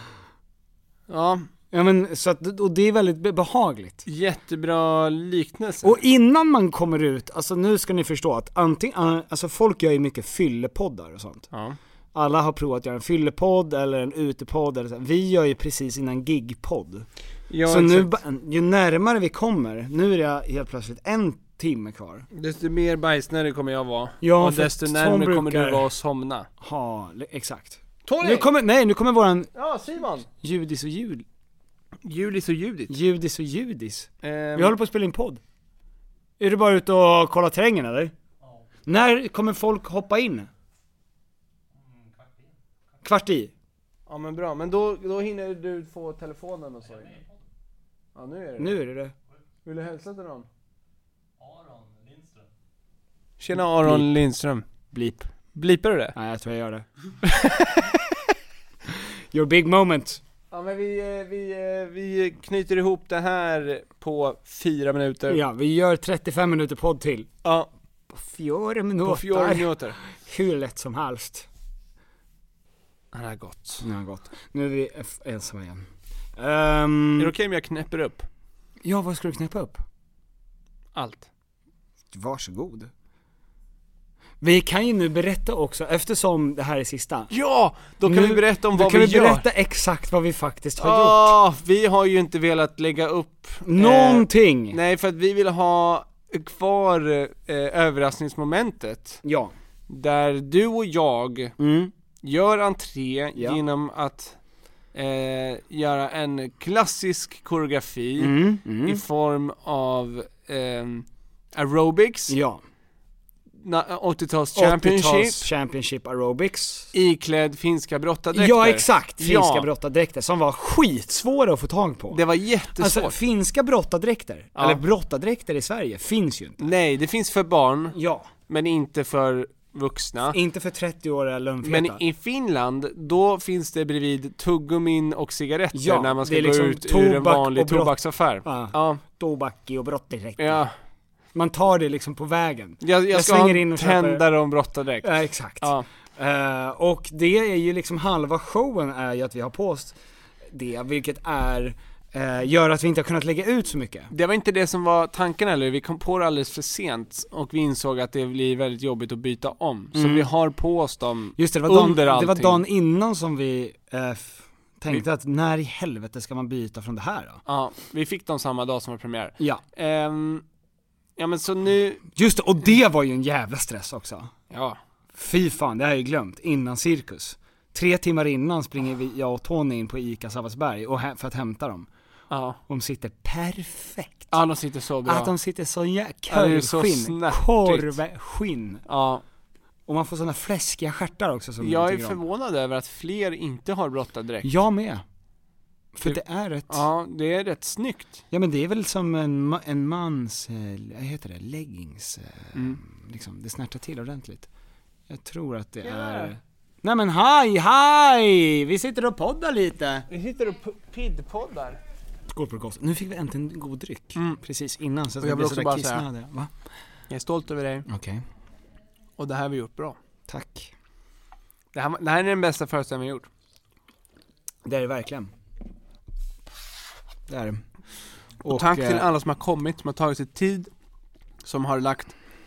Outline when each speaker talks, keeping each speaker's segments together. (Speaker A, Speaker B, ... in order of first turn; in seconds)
Speaker A: 1.1-1.5, 4.1-6.0, 11.5-11.8, 17.5-18.1, 22.3-26.5, 28.1-28.5, 29.6-30.3, 32.0-32.9, 34.2-34.7, 44.1-47.2, 48.1-48.7, 49.6-50.5, 53.4-54.6, 55.5-56.1, 57.2-57.8, 60.5-65.4, 67.4-67.7, 69.0-70.0, 73.1-73.8, 77.2-78.3, 81.0-81.3, 87.3-89.5, 90.8-99.2, 99.9-101.5, 102.2-104.4, 104.9-112.4, 113.6-115.5, 116.9-119.7, 122.1-123.2, 124.6-124.8, 126.6-128.0, 128.5-130.4, 131.6-139.0, 140.4-140.7, 142.8-145.1, 145.6-145.9, 154.1-162.6, 167.5-170.4, 171.2-172.1, 174.5-174.8, 182.3-182.6, 184.3-185.3, 186.3-188.0, 188.9-189.2, 191.6-194.5, 196.0-198.2, 202.5-202.8, 205.8-206.3, 210.1-211.8, 215.2-216.1, 217.1-217.9, 219.2-220.0, 221.7-223.3, 228.5-230.7, 231.4-232.2
Speaker B: 1.7-4.0, 5.8-11.5, 12.1-17.1, 17.7-22.3, 24.2-25.9, 26.6-29.5, 30.4-31.2, 32.9-35.4, 36.4-38.1, 38.9-40.5, 43.0-43.5, 48.6-49.1, 53.6-54.1, 54.9-55.3, 56.1-56.9, 59.3-60.2, 65.3-67.3, 68.1-71.5, 73.8-77.3, 78.8-79.8, 82.1-82.9, 84.4-87.3, 88.0-91.4, 93.7-94.8, 99.2-99.5, 101.6-101.9, 108.2-109.0, 112.3-112.6, 114.5-116.9, 118.3-122.2, 122.8-126.7, 127.9-128.3, 130.3-132.0, 135.7-140.6, 141.3-144.2, 145.0-150.0, 150.5-154.1, 159.9-160.3, 161.4-167.4, 172.2-174.3, 175.2-181.9, 182.7-184.3, 185.1-188.8, 189.9-192.2, 194.4-195.0, 195.9-196.8, 198.3-204.5, 205.1-210.1, 212.3-216.5, 217.9-218.2, 220.3-220.7, 224.7-225.3, 227.3-227.6, 228.4-229.1